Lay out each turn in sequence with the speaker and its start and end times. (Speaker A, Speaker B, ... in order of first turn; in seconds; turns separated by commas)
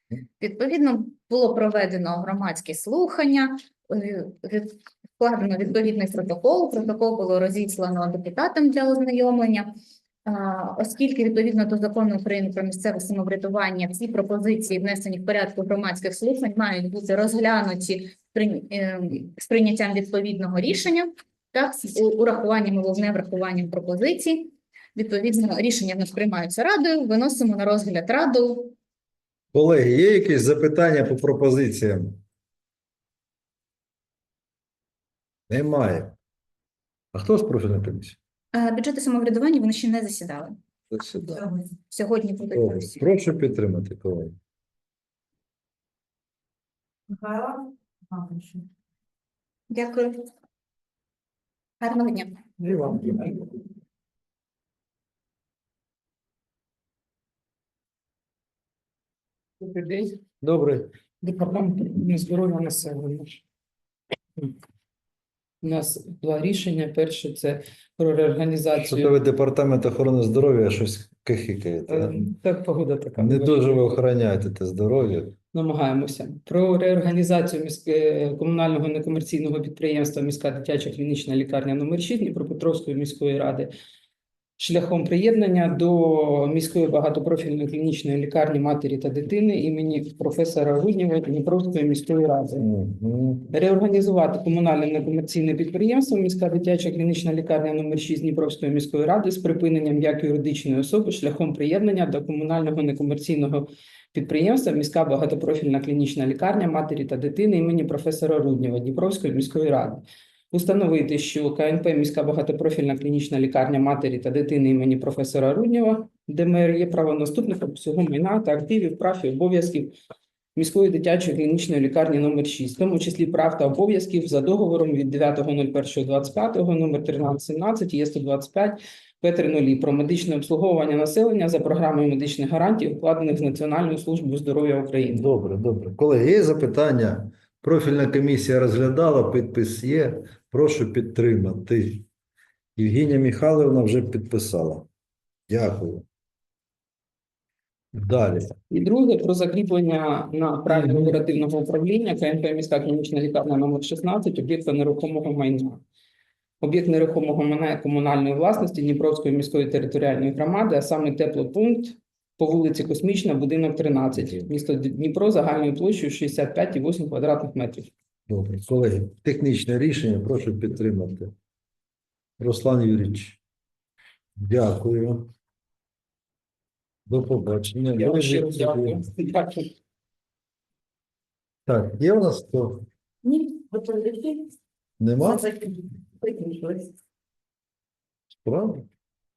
Speaker A: 0.4-9.7, Speaker A: 10.3-28.7, Speaker B: 29.5-32.2, Speaker B: 35.5-36.1, Speaker B: 37.1-38.2, Speaker A: 38.5-40.6, Speaker B: 40.9-41.5, Speaker A: 41.9-43.0, Speaker B: 42.5-44.4, Speaker A: 47.2-47.6, Speaker A: 48.1-48.5, Speaker A: 49.7-50.2, Speaker A: 51.8-52.4, Speaker B: 52.6-53.3, Speaker C: 59.6-60.2, Speaker B: 60.4-60.9, Speaker C: 61.2-63.4, Speaker C: 65.6-69.2, Speaker B: 68.8-72.2, Speaker C: 71.9-73.8, Speaker B: 73.2-75.3, Speaker C: 75.5-83.7, Speaker C: 84.6-92.7, Speaker B: 92.6-93.5, Speaker C: 93.5-119.9, Speaker C: 120.6-135.3, Speaker B: 135.1-142.1, Speaker B: 142.8-144.9, Speaker B: 145.5-146.1, Speaker B: 147.9-148.5, Speaker C: 148.7-155.8, Speaker B: 150.7-151.2, Speaker C: 156.6-167.9, Speaker B: 168.3-171.3, Speaker B: 172.4-173.4, Speaker B: 174.4-175.3, Speaker B: 177.1-179.0, Speaker C: 177.9-179.7, Speaker B: 181.7-182.9, Speaker A: 183.3-184.1, Speaker B: 185.0-185.5, Speaker B: 188.4-188.9